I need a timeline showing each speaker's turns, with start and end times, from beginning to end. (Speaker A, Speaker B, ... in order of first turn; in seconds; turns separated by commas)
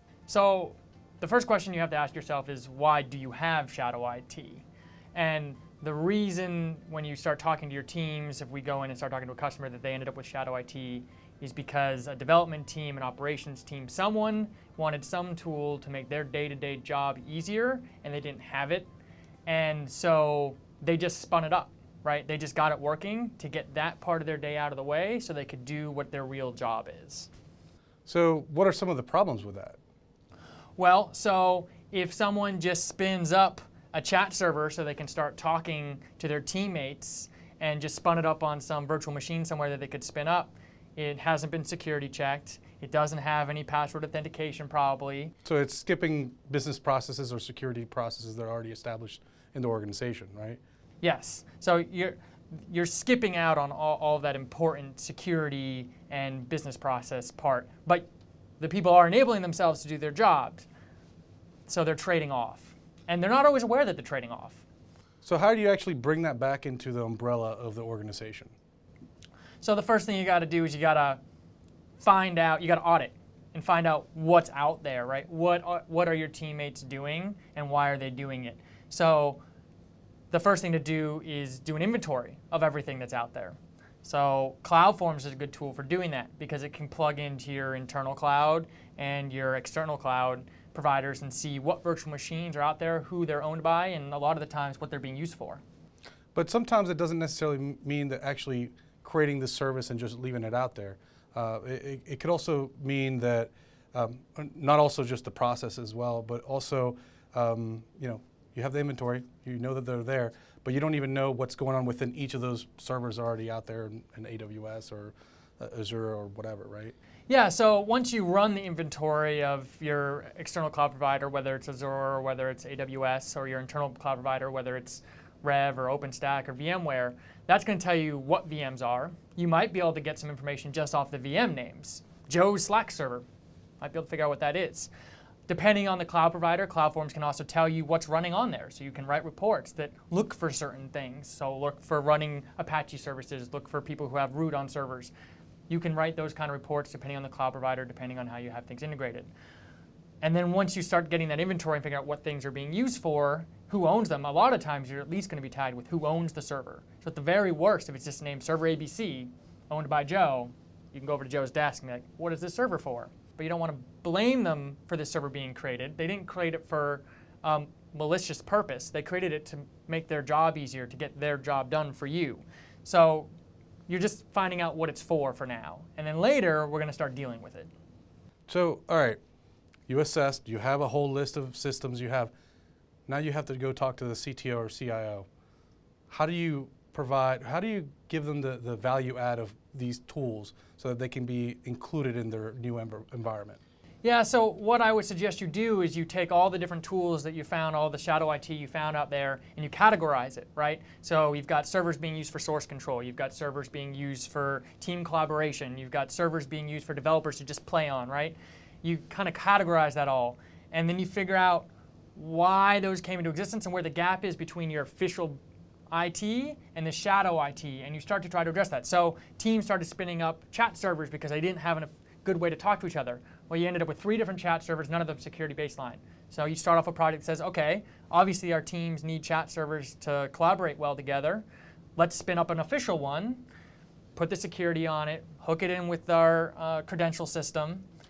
Speaker A: 0.3-4.6, Speaker A: 5.2-18.9, Speaker A: 19.5-27.3, Speaker B: 28.1-29.8, Speaker A: 30.8-45.3, Speaker B: 45.5-50.6, Speaker A: 51.0-58.1, Speaker A: 58.6-60.7, Speaker A: 61.7-64.6, Speaker B: 65.2-68.5, Speaker A: 69.6-71.2, Speaker A: 72.0-79.4, Speaker A: 80.3-95.6, Speaker B: 96.3-116.9, Speaker A: 117.3-133.3, Speaker A: 133.8-134.9, Speaker A: 135.5-145.1, Speaker A: 145.7-149.3, Speaker A: 150.2-173.3, Speaker A: 173.9-177.7, Speaker B: 178.5-179.2, Speaker B: 179.9-182.3, Speaker B: 183.1-185.3, Speaker B: 186.1-193.6, Speaker A: 194.0-231.4, Speaker A: 232.0-233.5, Speaker A: 234.2-237.9